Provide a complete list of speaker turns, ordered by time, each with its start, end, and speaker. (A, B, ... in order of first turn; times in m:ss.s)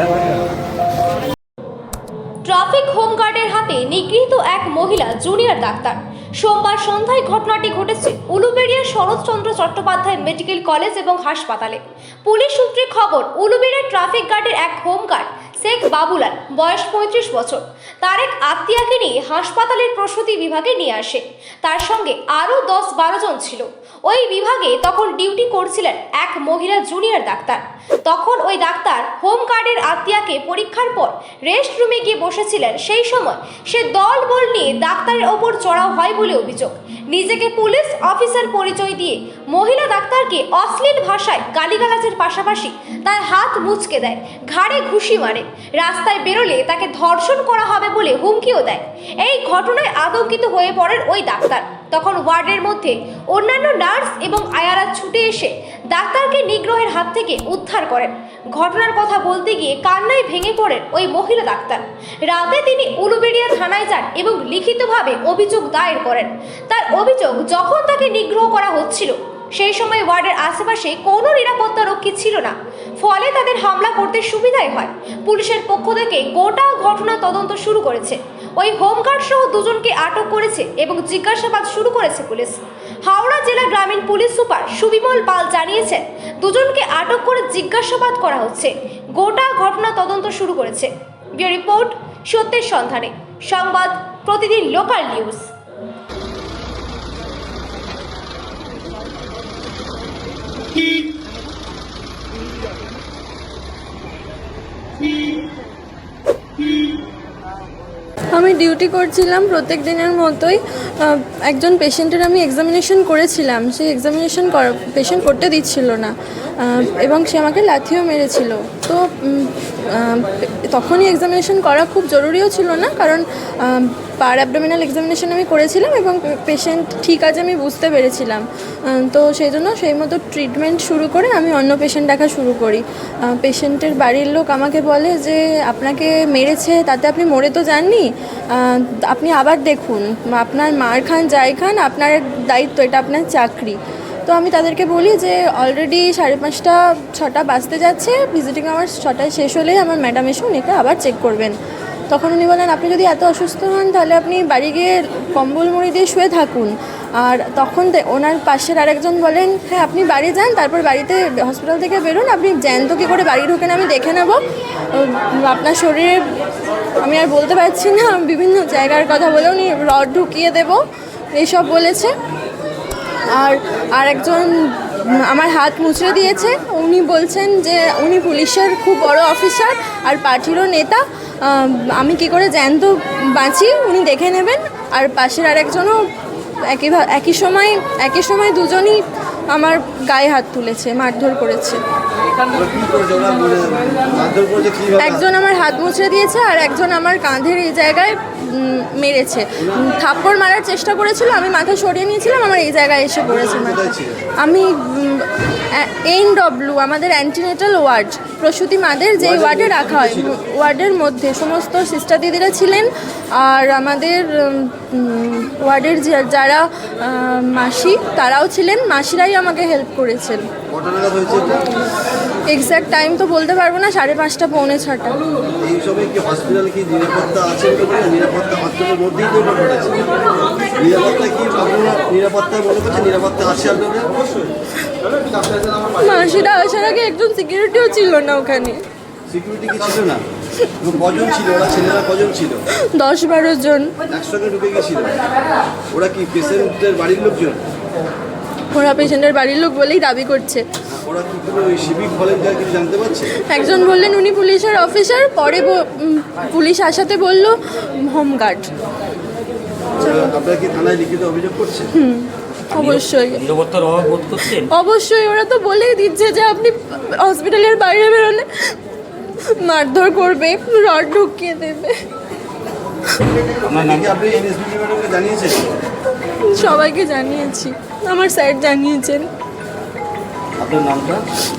0:02.4-1:35.5 A
1:48.3-2:31.6 B
2:32.1-2:44.4 B
2:44.9-2:46.2 B
2:47.0-2:50.8 B
2:51.3-2:52.1 B
2:53.3-3:06.0 B
3:06.7-3:09.0 B
3:09.5-3:11.8 B
3:12.5-3:15.2 C
3:15.0-3:40.4 B
3:23.3-3:24.2 C
3:29.2-3:30.3 C
3:40.7-3:41.6 C
3:42.5-3:45.2 B
3:45.6-3:50.0 C
3:50.7-3:54.3 C
3:55.9-3:58.8 B
3:59.3-4:00.2 C
4:00.8-4:02.6 C
4:02.9-4:04.0 B
4:04.0-4:05.2 C
4:05.9-4:07.6 C
4:08.7-4:10.6 B
4:10.9-4:13.3 C
4:13.4-4:18.7 B
4:20.0-4:21.9 C
4:21.9-4:23.4 B
4:22.7-4:24.7 D
4:24.7-4:28.5 B
4:29.6-4:31.9 B
4:33.6-4:35.6 C
4:36.5-4:39.3 B
4:40.6-4:41.2 C